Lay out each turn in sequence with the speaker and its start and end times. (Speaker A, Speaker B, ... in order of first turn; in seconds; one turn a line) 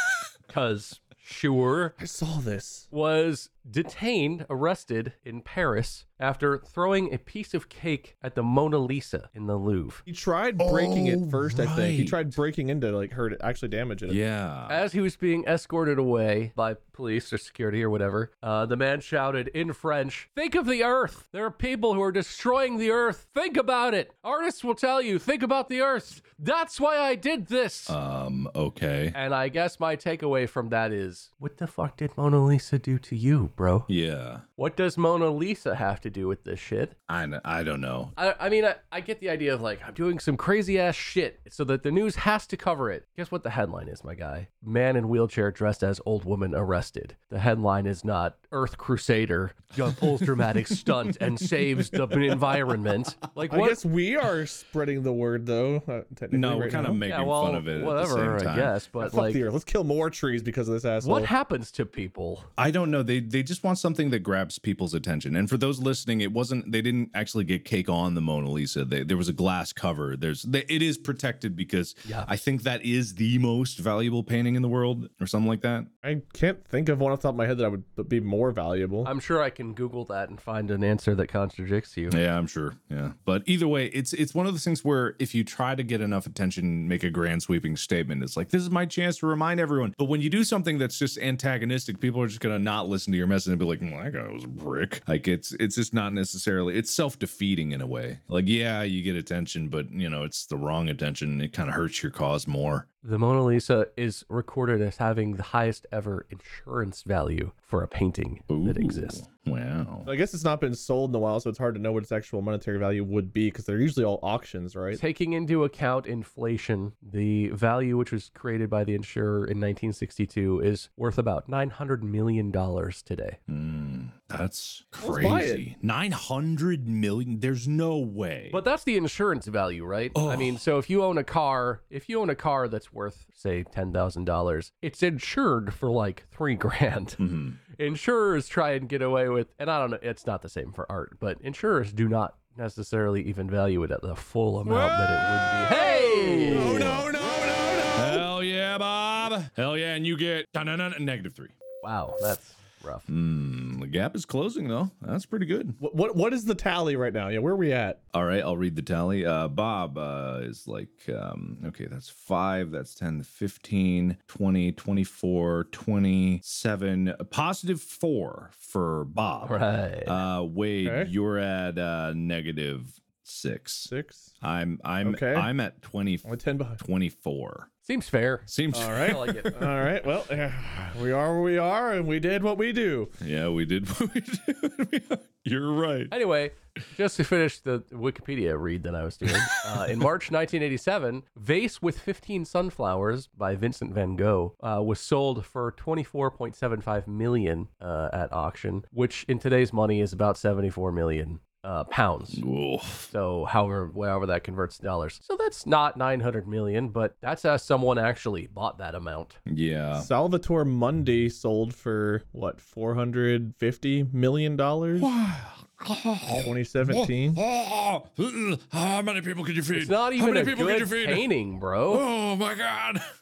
Speaker A: 0.5-1.9
Speaker B: 2.0-2.9
Speaker A: 2.9-10.0
Speaker B: 10.1-14.2
Speaker C: 10.6-12.2
Speaker C: 14.1-14.8
Speaker A: 14.7-27.9
Speaker C: 27.9-29.1
Speaker A: 29.1-33.9
Speaker C: 33.9-34.4
Speaker A: 34.6-36.9
Speaker C: 37.1-38.1
Speaker A: 38.1-53.8
Speaker C: 49.9-52.7
Speaker B: 53.5-57.0
Speaker C: 56.3-58.7
Speaker A: 57.0-59.4
Speaker B: 59.0-61.3
Speaker A: 61.0-62.5
Speaker C: 62.6-75.9
Speaker B: 76.0-79.1
Speaker A: 79.0-82.2
Speaker C: 82.1-102.8
Speaker A: 103.0-109.2
Speaker C: 108.5-110.1
Speaker B: 110.0-115.0
Speaker A: 114.9-123.4
Speaker C: 123.5-128.6
Speaker B: 125.0-125.6
Speaker A: 128.5-137.2
Speaker C: 130.1-130.6
Speaker C: 137.2-137.6
Speaker A: 137.8-147.0
Speaker C: 144.7-147.1
Speaker B: 145.7-148.3
Speaker C: 147.9-151.5
Speaker A: 151.8-153.1
Speaker C: 153.1-155.8
Speaker B: 155.8-158.0
Speaker C: 158.1-177.7
Speaker A: 169.4-170.2
Speaker B: 170.8-171.1
Speaker B: 173.9-174.3
Speaker B: 175.0-175.5
Speaker B: 176.2-176.8
Speaker A: 177.8-179.5
Speaker C: 178.5-179.9
Speaker B: 178.7-183.1
Speaker C: 183.2-186.1
Speaker A: 186.1-202.4
Speaker C: 189.4-189.9
Speaker C: 202.3-203.1
Speaker A: 203.1-209.4
Speaker C: 209.5-210.1
Speaker B: 209.9-215.1
Speaker C: 215.0-221.3
Speaker B: 216.3-217.4
Speaker A: 219.7-222.1
Speaker C: 221.9-223.0